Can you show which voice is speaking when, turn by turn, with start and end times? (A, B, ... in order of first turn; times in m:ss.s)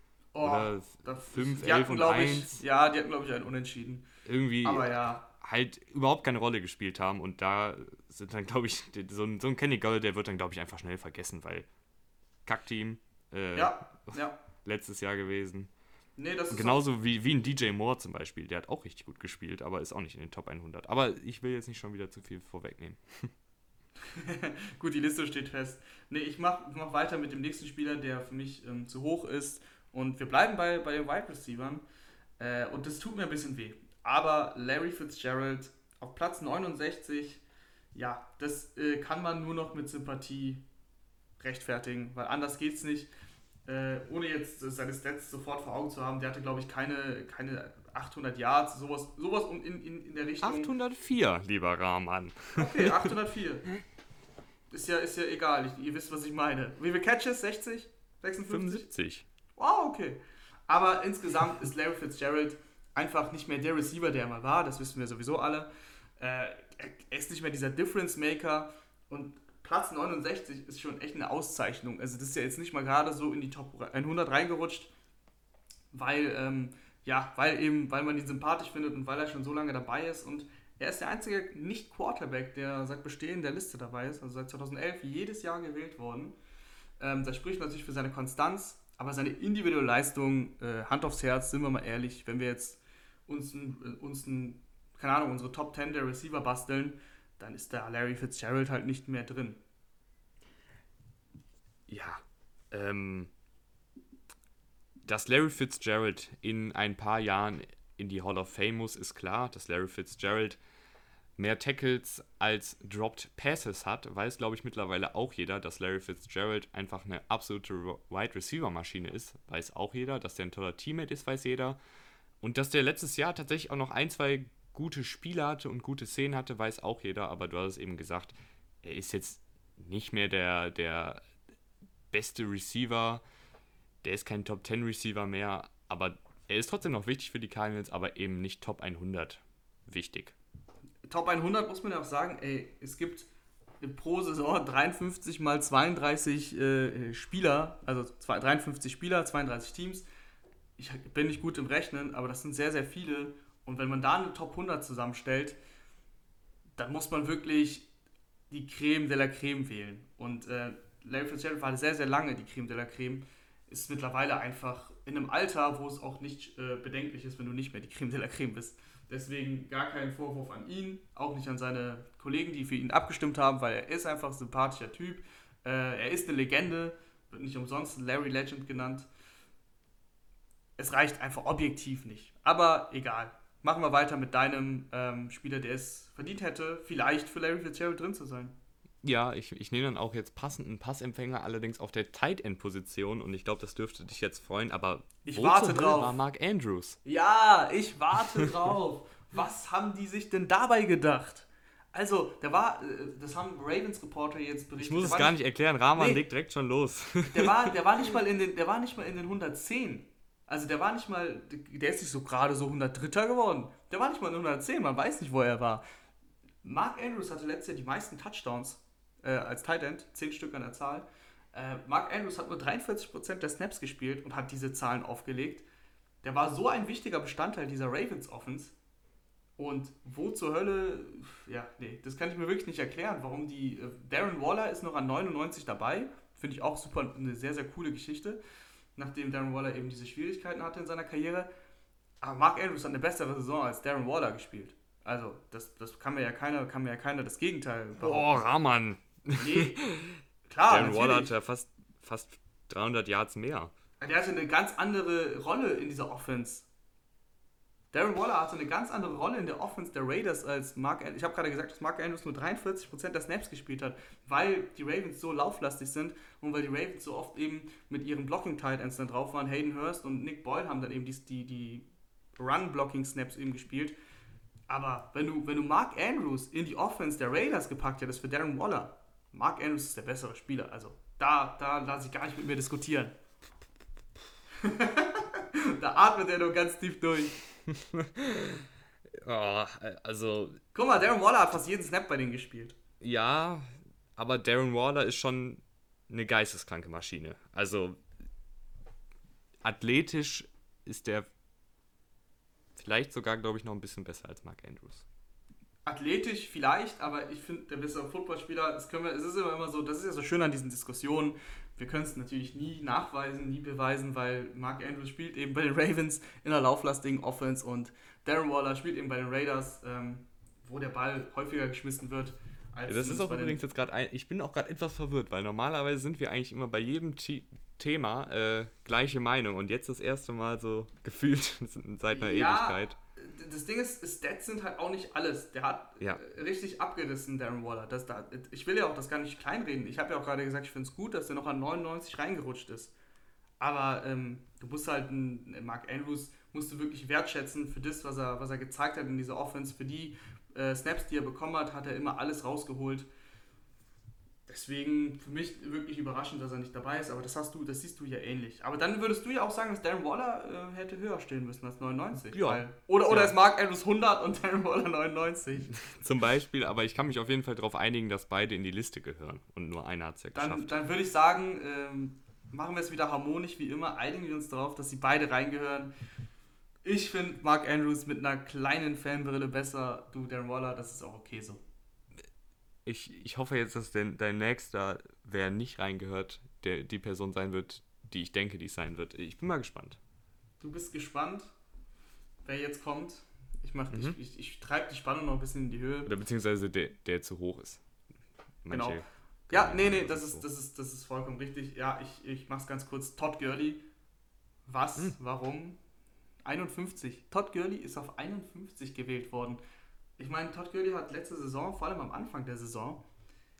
0:00.3-0:04.0 A
0:00.4-0:02.6 B
0:04.2-0:11.7 B
0:04.6-0:05.2 A
0:12.4-0:15.7 B
0:13.5-0:14.4 A
0:16.2-0:16.8 A
0:16.5-0:23.3 B
0:24.1-0:31.8 A
0:32.4-0:37.4 A
0:37.9-0:40.6 A
0:41.4-0:43.1 A
0:43.6-0:50.7 A
0:50.4-0:53.1 B
0:52.5-0:53.7 A
0:54.7-0:58.9 A
0:58.5-0:59.2 B
0:59.6-1:14.9 A
1:15.9-1:26.3 A
1:27.0-1:39.6 A
1:41.9-1:43.3 B
1:45.0-1:50.6 B
1:51.4-2:01.8 B
2:02.4-2:11.2 B
2:12.1-2:13.2 B
2:14.0-2:20.3 B
2:21.1-2:23.3 A
2:23.8-2:30.0 A
2:30.8-2:35.6 A
2:36.8-2:37.9 A
2:38.5-2:59.1 A
3:00.8-3:08.6 A
3:09.0-3:17.0 B
3:15.2-3:16.2 A
3:17.0-3:25.4 A
3:24.8-3:27.7 B
3:26.0-3:26.2 A
3:27.3-3:35.8 A
3:36.6-3:45.6 A
3:46.2-3:48.7 A
3:49.6-3:58.4 A
3:59.0-4:01.5 A
4:02.2-4:08.4 A
4:08.0-4:13.7 B
4:09.4-4:09.8 A
4:10.5-4:11.3 A
4:14.0-4:16.7 A
4:17.9-4:33.9 A
4:34.7-4:43.1 A
4:44.6-4:47.4 A
4:47.6-4:50.6 B
4:50.7-4:52.8 A
4:53.0-4:58.0 B
4:59.6-5:01.3 B
5:02.8-5:05.0 B
5:05.8-5:23.6 A
5:22.8-5:33.0 B
5:32.1-5:42.9 A
5:43.6-5:53.1 A
5:54.5-6:05.8 A
6:02.3-6:03.3 B
6:05.8-6:10.7 B
6:10.3-6:15.9 A
6:16.8-6:21.6 A
6:22.8-6:30.0 B
6:30.6-6:31.5 A
6:32.4-6:36.1 A
6:33.9-6:34.2 B
6:36.0-6:37.8 B
6:38.6-6:40.4 B
6:38.7-6:43.8 A
6:44.7-6:45.8 A
6:46.4-6:49.6 A
6:50.2-6:53.0 A